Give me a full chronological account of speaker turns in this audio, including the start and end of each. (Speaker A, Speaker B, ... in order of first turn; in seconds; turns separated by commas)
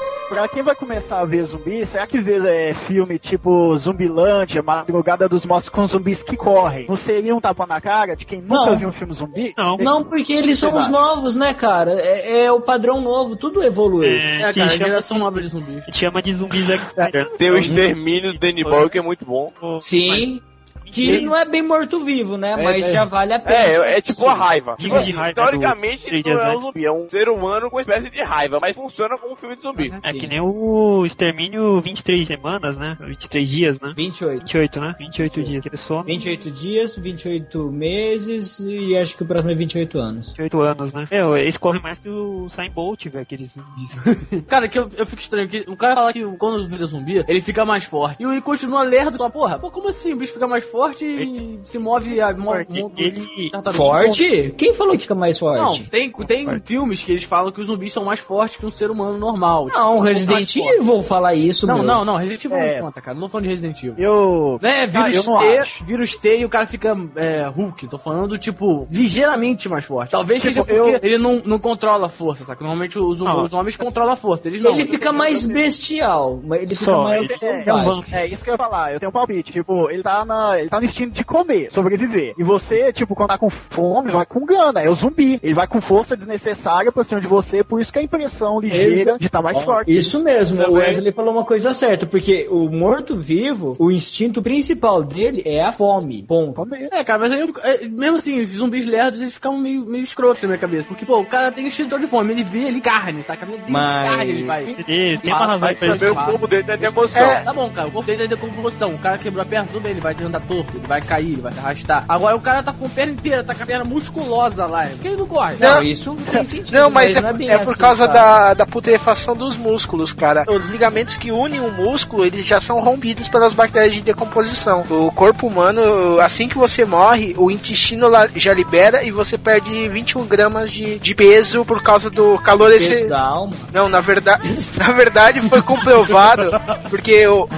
Speaker A: 0.3-11.0, Speaker B: 8.5-8.8, Speaker C: 9.6-9.9, Speaker B: 9.8-14.2, Speaker C: 14.0-17.8, Speaker D: 14.4-15.9, Speaker E: 17.4-19.5, Speaker C: 18.4-19.0, Speaker C: 19.6-20.3, Speaker B: 19.8-25.1, Speaker C: 20.8-21.3, Speaker D: 22.6-23.1, Speaker E: 23.4-29.9, Speaker C: 24.8-26.6, Speaker B: 29.8-30.3, Speaker C: 30.0-36.5, Speaker B: 33.9-34.5, Speaker B: 35.2-40.3, Speaker C: 40.4-44.0, Speaker D: 44.1-54.2, Speaker C: 52.5-53.5, Speaker B: 53.7-55.9, Speaker D: 55.5-60.8, Speaker C: 56.2-56.6, Speaker B: 59.7-62.0, Speaker D: 61.6-64.0, Speaker A: 62.5-62.9, Speaker A: 64.0-65.8, Speaker D: 64.6-75.2, Speaker A: 70.4-71.0, Speaker C: 73.2-73.5, Speaker B: 74.6-78.1, Speaker A: 75.0-75.6, Speaker C: 76.7-78.2, Speaker A: 77.1-90.2, Speaker B: 88.7-96.6, Speaker D: 90.5-91.0, Speaker A: 96.5-96.9, Speaker D: 96.9-115.8, Speaker B: 103.7-104.6, Speaker C: 104.7-106.3, Speaker E: 105.5-107.4, Speaker F: 107.1-107.4, Speaker B: 115.6-118.3, Speaker F: 115.6-115.8, Speaker F: 116.7-133.1, Speaker B: 132.8-133.7, Speaker F: 133.7-137.5, Speaker C: 136.4-136.7